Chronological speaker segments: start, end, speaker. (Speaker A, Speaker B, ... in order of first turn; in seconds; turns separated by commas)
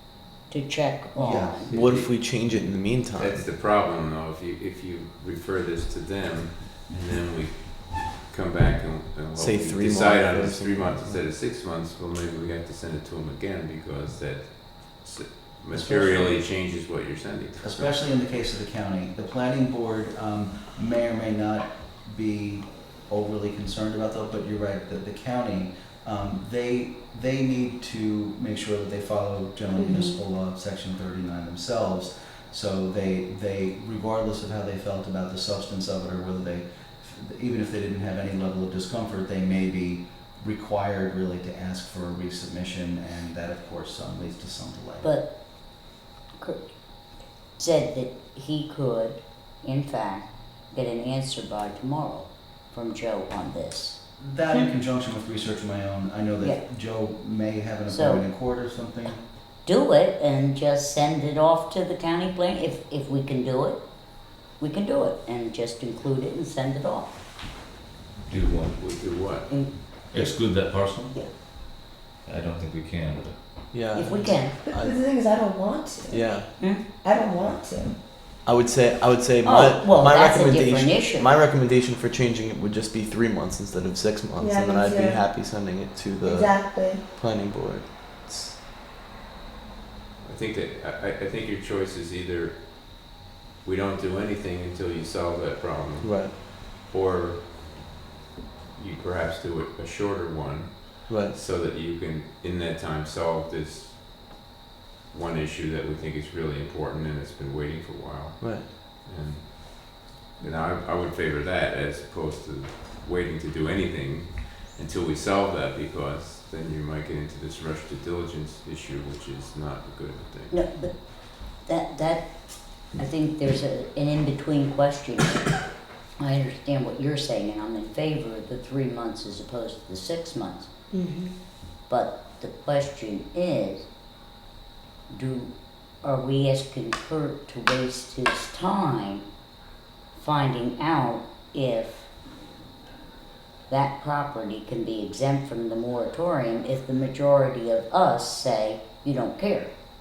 Speaker A: 0.5-1.7, Speaker B: 1.1-1.7, Speaker C: 1.7-2.1, Speaker D: 1.7-3.4, Speaker C: 3.1-18.0, Speaker D: 9.4-11.2, Speaker B: 15.7-16.4, Speaker B: 17.6-45.1, Speaker E: 29.8-30.2, Speaker A: 45.0-45.7, Speaker A: 46.4-46.8, Speaker A: 47.6-54.0, Speaker B: 54.2-59.2, Speaker A: 57.9-58.2, Speaker A: 59.7-63.8, Speaker A: 64.6-67.1, Speaker F: 68.3-68.8, Speaker C: 68.7-69.5, Speaker A: 69.5-69.8, Speaker F: 70.1-73.7, Speaker D: 73.7-75.0, Speaker A: 73.9-74.7, Speaker E: 74.6-76.3, Speaker D: 76.1-76.7, Speaker A: 76.6-76.8, Speaker E: 77.0-78.0, Speaker D: 78.4-88.6, Speaker A: 79.4-81.3, Speaker E: 84.4-85.2, Speaker E: 86.2-87.0, Speaker C: 90.2-97.7, Speaker D: 96.0-96.3, Speaker C: 98.8-104.5, Speaker D: 101.1-101.4, Speaker C: 105.1-120.5, Speaker D: 108.4-108.7, Speaker A: 120.5-125.4, Speaker A: 126.2-130.7, Speaker E: 130.9-131.3, Speaker A: 131.9-133.9, Speaker A: 135.1-139.3, Speaker A: 140.2-142.1, Speaker A: 143.7-149.7